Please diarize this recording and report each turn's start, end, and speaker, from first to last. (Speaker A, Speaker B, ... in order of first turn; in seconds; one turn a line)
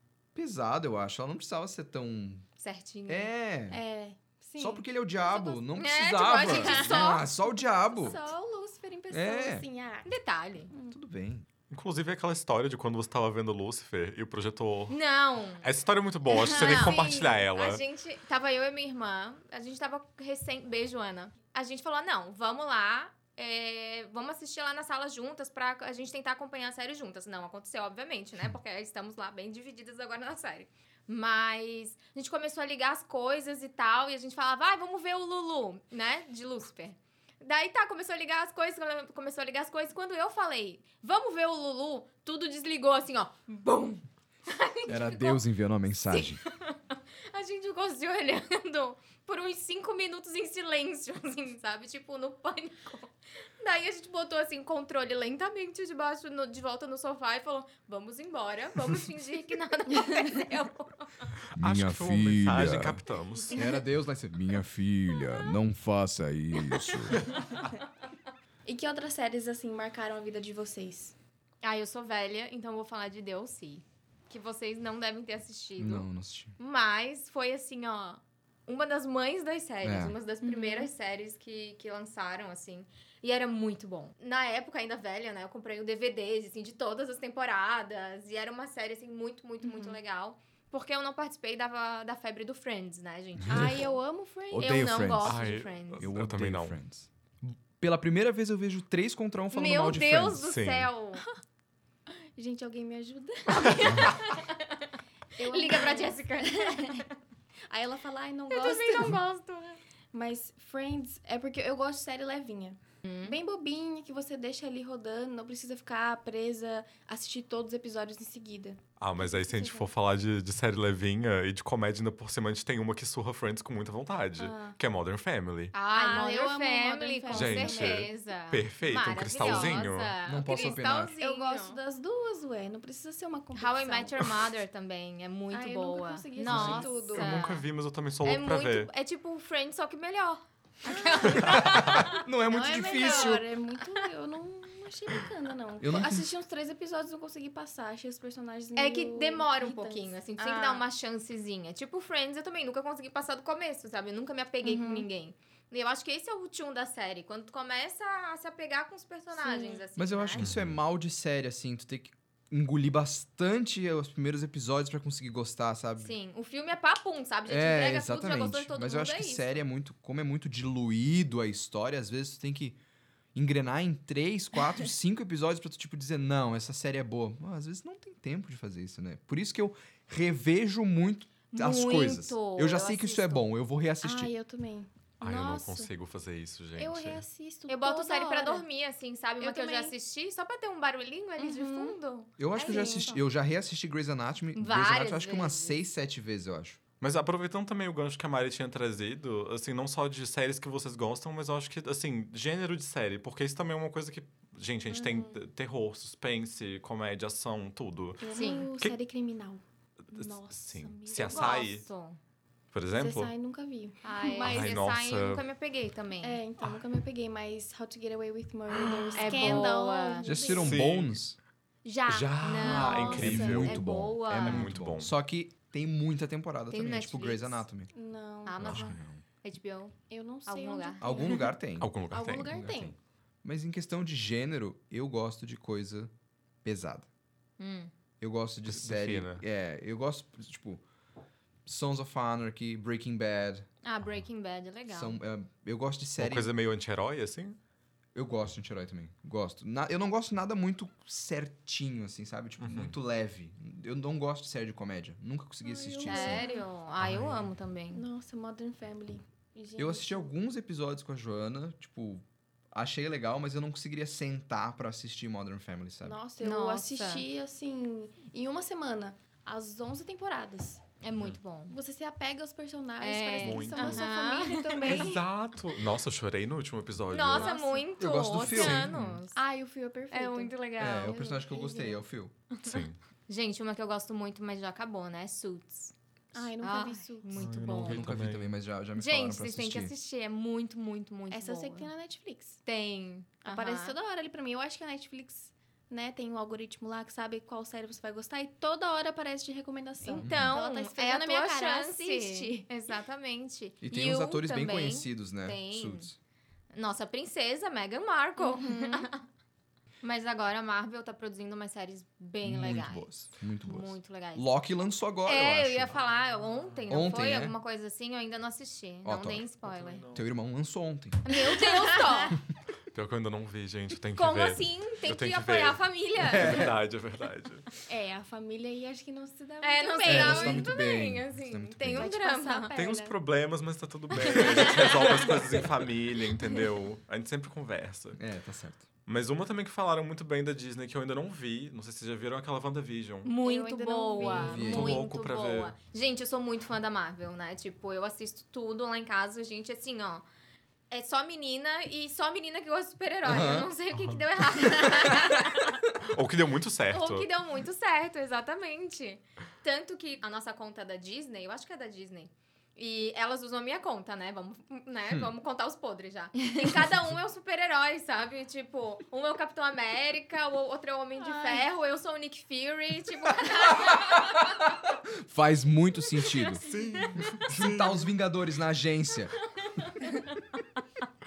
Speaker A: 0.3-2.5
Speaker B: 2.6-3.3
Speaker A: 3.1-3.8
Speaker C: 3.7-5.6
Speaker A: 4.6-8.2
Speaker B: 5.8-7.2
Speaker C: 6.3-10.1
Speaker A: 9.1-9.7
Speaker B: 10.0-10.7
Speaker A: 10.9-11.5
Speaker D: 11.7-15.0
Speaker B: 14.9-15.7
Speaker D: 15.6-17.8
Speaker B: 16.3-45.4
Speaker C: 16.4-17.3
Speaker A: 44.9-46.4
Speaker B: 46.1-61.3
Speaker C: 60.0-60.2
Speaker D: 61.5-63.6
Speaker A: 61.6-67.2
Speaker C: 68.6-71.1
Speaker B: 71.6-94.0
Speaker A: 75.8-76.6
Speaker A: 79.8-80.2
Speaker C: 80.4-80.9
Speaker C: 89.6-90.0
Speaker A: 93.4-93.9
Speaker C: 93.5-94.8
Speaker A: 94.5-95.4
Speaker B: 94.5-96.1
Speaker D: 95.2-96.8
Speaker A: 96.0-100.5
Speaker B: 99.5-101.2
Speaker D: 100.4-100.9
Speaker C: 102.3-104.4
Speaker B: 103.5-104.9
Speaker C: 105.3-107.0
Speaker B: 105.5-107.1
Speaker C: 107.7-109.2
Speaker B: 108.5-109.8
Speaker C: 110.1-119.9
Speaker B: 113.0-113.4
Speaker D: 119.0-125.7
Speaker C: 124.4-124.8
Speaker B: 125.7-131.8
Speaker C: 125.9-128.1
Speaker D: 127.3-130.1
Speaker C: 129.4-129.8
Speaker A: 130.2-131.1
Speaker C: 130.5-134.3
Speaker B: 133.5-137.7
Speaker C: 135.5-137.3
Speaker D: 136.5-138.9
Speaker B: 138.2-142.2
Speaker C: 140.8-150.8
Speaker A: 141.4-143.4
Speaker B: 142.9-143.4
Speaker A: 145.8-146.3
Speaker B: 148.8-160.5
Speaker C: 154.6-155.1
Speaker C: 159.3-159.8
Speaker A: 160.0-166.1
Speaker D: 160.4-160.8
Speaker B: 166.0-169.6
Speaker A: 167.5-172.8
Speaker A: 173.3-184.3
Speaker B: 181.5-183.4
Speaker C: 184.0-185.9
Speaker D: 185.2-187.2
Speaker C: 186.8-188.7
Speaker B: 187.7-193.2
Speaker C: 189.4-189.9
Speaker C: 191.4-192.0
Speaker A: 192.4-196.8
Speaker C: 192.6-193.2
Speaker B: 194.6-195.8
Speaker D: 197.0-208.2
Speaker C: 204.9-205.4
Speaker C: 208.2-211.7
Speaker B: 208.3-208.7
Speaker D: 210.1-211.9
Speaker B: 211.2-212.2
Speaker D: 212.7-213.3
Speaker C: 212.9-214.8
Speaker B: 214.0-216.4
Speaker D: 214.4-215.4
Speaker C: 216.2-220.8
Speaker D: 218.8-219.3
Speaker B: 219.1-220.5
Speaker A: 220.2-221.4
Speaker D: 220.5-221.2
Speaker B: 221.8-224.7
Speaker D: 222.1-225.1
Speaker A: 222.6-227.9
Speaker C: 222.7-223.6
Speaker B: 226.7-227.6
Speaker C: 227.9-228.9
Speaker B: 228.4-231.4
Speaker A: 228.6-229.2
Speaker C: 230.1-231.5
Speaker A: 231.0-236.1
Speaker D: 231.8-232.8
Speaker C: 232.1-232.9
Speaker A: 236.6-237.1
Speaker B: 237.6-237.9
Speaker A: 238.2-240.8
Speaker D: 238.7-239.4
Speaker A: 241.7-243.7
Speaker B: 243.8-245.2
Speaker A: 244.9-246.5
Speaker D: 246.2-247.6
Speaker A: 248.1-256.5
Speaker D: 252.6-252.9
Speaker C: 255.6-256.6
Speaker B: 256.0-258.0
Speaker D: 257.0-257.5
Speaker C: 257.9-260.3
Speaker A: 259.8-266.2
Speaker C: 266.0-270.8
Speaker B: 266.4-267.2
Speaker B: 271.0-271.8
Speaker C: 271.7-275.2
Speaker B: 273.0-275.1
Speaker D: 273.4-274.1
Speaker D: 274.8-277.5
Speaker B: 277.1-279.4
Speaker C: 277.2-277.9
Speaker A: 278.0-278.9
Speaker D: 278.5-279.2
Speaker C: 279.3-282.0
Speaker B: 280.1-281.2
Speaker A: 280.8-282.3
Speaker B: 282.5-285.9
Speaker D: 282.6-283.0
Speaker C: 286.3-287.5
Speaker B: 286.6-288.1
Speaker D: 287.3-288.5
Speaker A: 287.8-289.9
Speaker B: 289.0-291.9
Speaker C: 291.3-292.6
Speaker B: 292.6-294.0
Speaker C: 293.4-302.7
Speaker B: 300.0-306.1
Speaker A: 300.2-300.5
Speaker A: 303.8-306.1
Speaker B: 306.7-309.2
Speaker C: 308.4-309.1
Speaker B: 310.0-313.1
Speaker A: 312.4-315.9
Speaker B: 313.6-314.5
Speaker B: 315.2-320.0
Speaker D: 316.0-316.8
Speaker A: 316.9-317.6
Speaker A: 319.0-319.4
Speaker D: 319.6-320.2
Speaker A: 320.1-321.2
Speaker B: 321.2-322.4
Speaker C: 321.3-322.4
Speaker D: 322.9-327.6
Speaker B: 324.1-326.7
Speaker A: 326.3-326.8
Speaker C: 327.9-330.7
Speaker B: 329.6-332.8
Speaker A: 330.1-332.1
Speaker C: 331.9-333.1
Speaker D: 332.7-338.2
Speaker B: 334.2-335.4
Speaker C: 334.3-335.2
Speaker A: 338.1-338.9
Speaker D: 339.1-343.3
Speaker B: 343.2-350.2
Speaker C: 343.4-344.7
Speaker A: 344.3-345.0
Speaker D: 344.3-345.7
Speaker B: 350.9-355.8
Speaker A: 353.2-353.7
Speaker D: 353.9-354.2
Speaker D: 356.0-357.3
Speaker B: 356.9-374.8
Speaker C: 371.2-371.7
Speaker A: 375.1-376.6
Speaker C: 376.6-377.1
Speaker D: 376.6-378.1
Speaker A: 377.3-379.4
Speaker B: 379.6-380.6